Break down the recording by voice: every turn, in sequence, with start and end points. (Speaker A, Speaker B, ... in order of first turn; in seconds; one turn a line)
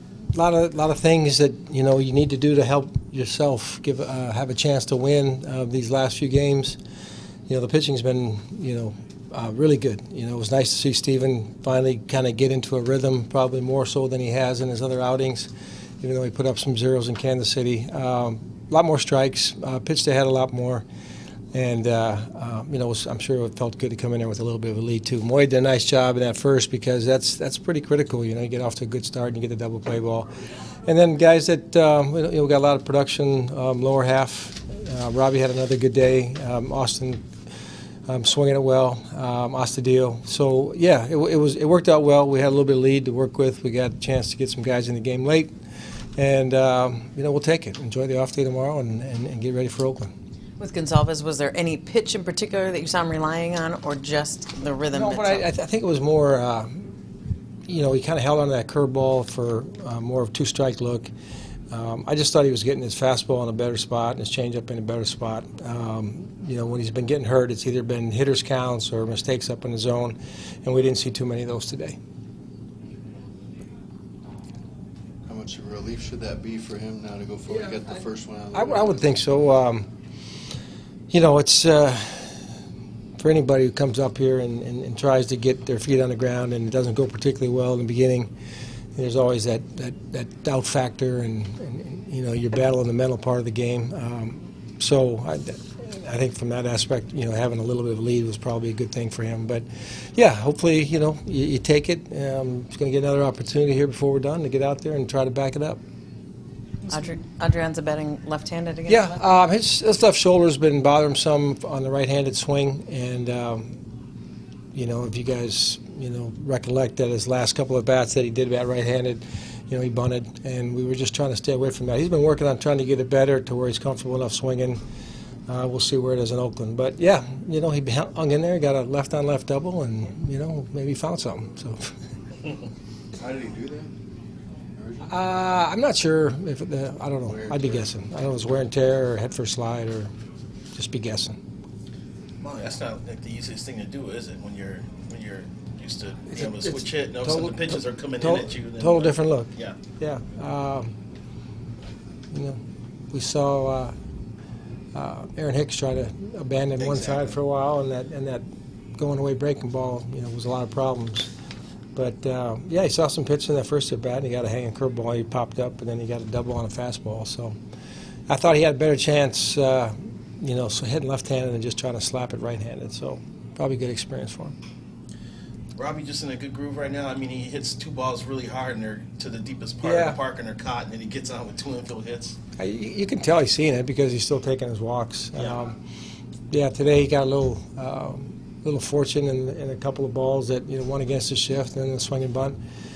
Speaker A: 0.3-6.8
Speaker A: 7.5-15.5
Speaker A: 16.0-20.9
Speaker A: 21.5-37.2
Speaker A: 38.1-45.5
Speaker A: 46.2-50.1
Speaker B: 50.6-55.5
Speaker A: 54.9-56.9
Speaker A: 57.7-61.1
Speaker A: 61.7-72.0
Speaker C: 75.3-79.1
Speaker A: 77.5-78.0
Speaker A: 78.5-79.9
Speaker A: 81.1-82.4
Speaker A: 83.2-88.3
Speaker A: 89.0-105.8
Speaker B: 106.9-109.3
Speaker A: 108.9-113.8
Speaker A: 114.7-124.8
Speaker A: 125.5-131.9
Speaker C: 133.2-133.9
Speaker C: 134.8-135.2
Speaker A: 135.1-140.1
Speaker C: 137.3-137.8
Speaker A: 140.8-141.4
Speaker D: 142.4-149.8
Speaker A: 146.3-150.9
Speaker A: 152.3-152.6
Speaker A: 153.1-153.9
Speaker A: 154.9-158.4
Speaker D: 156.8-157.3
Speaker A: 159.0-161.3
Speaker A: 162.0-167.6
Speaker A: 168.3-174.6
Speaker D: 175.8-182.4
Speaker A: 179.8-180.2
Speaker A: 182.6-185.8
Speaker A: 186.5-192.6